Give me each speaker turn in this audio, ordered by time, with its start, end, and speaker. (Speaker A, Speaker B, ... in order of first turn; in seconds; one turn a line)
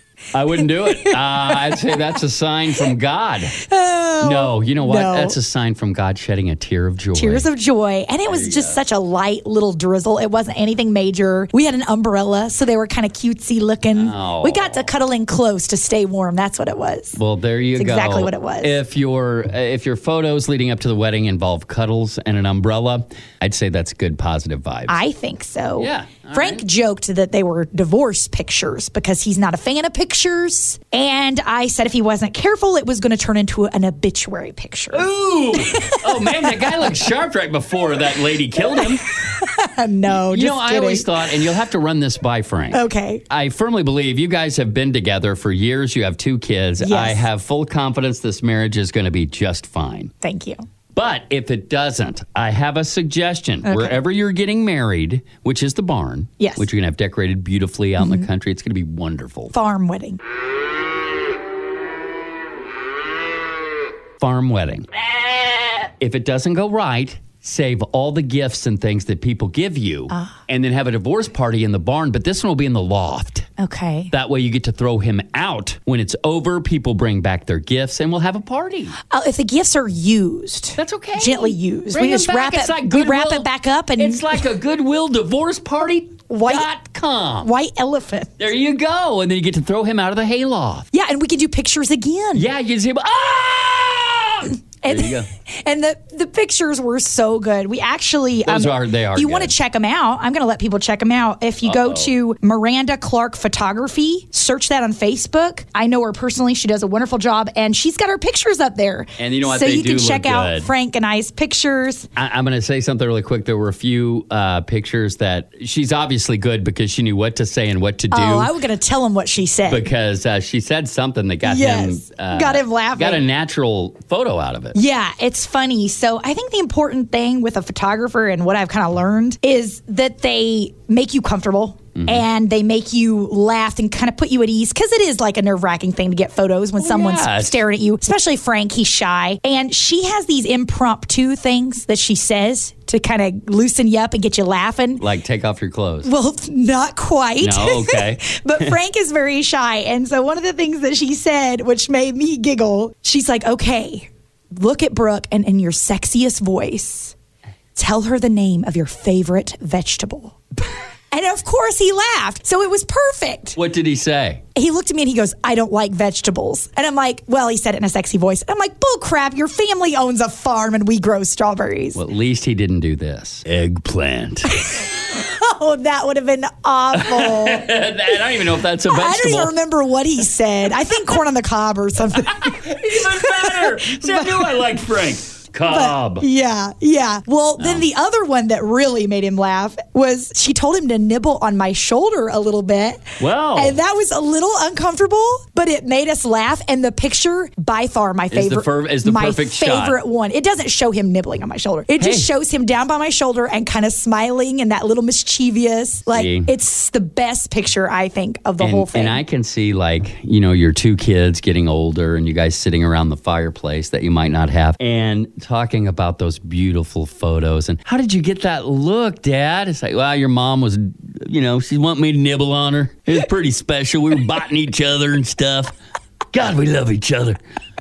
Speaker A: 0.3-3.6
Speaker B: 0.6-1.9
Speaker B: 3.6-5.3
Speaker A: 4.2-7.4
Speaker B: 7.1-17.2
Speaker A: 8.3-8.8
Speaker A: 13.9-14.8
Speaker A: 17.1-25.0
Speaker B: 17.8-18.8
Speaker B: 24.9-36.9
Speaker A: 25.8-26.6
Speaker A: 34.9-39.0
Speaker B: 38.7-41.1
Speaker A: 40.1-50.1
Speaker B: 42.7-43.2
Speaker B: 46.8-47.2
Speaker B: 50.2-50.6
Speaker A: 50.9-59.5
Speaker B: 53.6-54.0
Speaker B: 56.4-56.7
Speaker B: 58.0-58.2
Speaker B: 59.5-60.2
Speaker A: 64.2-64.9
Speaker A: 66.0-73.5
Speaker B: 70.1-70.4
Speaker B: 73.6-74.1
Speaker A: 74.1-79.0
Speaker B: 79.1-84.4
Speaker A: 80.8-87.5
Speaker B: 86.3-86.7
Speaker B: 87.4-88.4
Speaker A: 88.4-90.9
Speaker B: 90.9-92.5
Speaker A: 92.3-95.3
Speaker B: 94.8-112.1
Speaker A: 98.4-99.5
Speaker A: 101.6-102.1
Speaker A: 109.2-110.7
Speaker A: 112.2-118.5
Speaker B: 118.1-119.8
Speaker A: 119.7-124.8
Speaker B: 121.4-123.2
Speaker B: 124.7-145.0
Speaker A: 132.0-132.2
Speaker A: 136.8-137.6
Speaker A: 145.0-146.1
Speaker B: 146.0-157.1
Speaker A: 147.4-148.8
Speaker B: 157.8-163.6
Speaker A: 163.6-164.4
Speaker B: 164.5-172.0
Speaker A: 171.9-174.5
Speaker B: 174.5-177.7
Speaker A: 176.9-179.5
Speaker B: 178.9-184.6
Speaker A: 182.2-186.2
Speaker B: 185.7-209.2
Speaker A: 187.6-187.9
Speaker A: 193.2-193.8
Speaker A: 198.3-200.0
Speaker A: 202.0-202.3
Speaker A: 206.1-206.5
Speaker A: 208.6-225.7
Speaker A: 226.3-227.4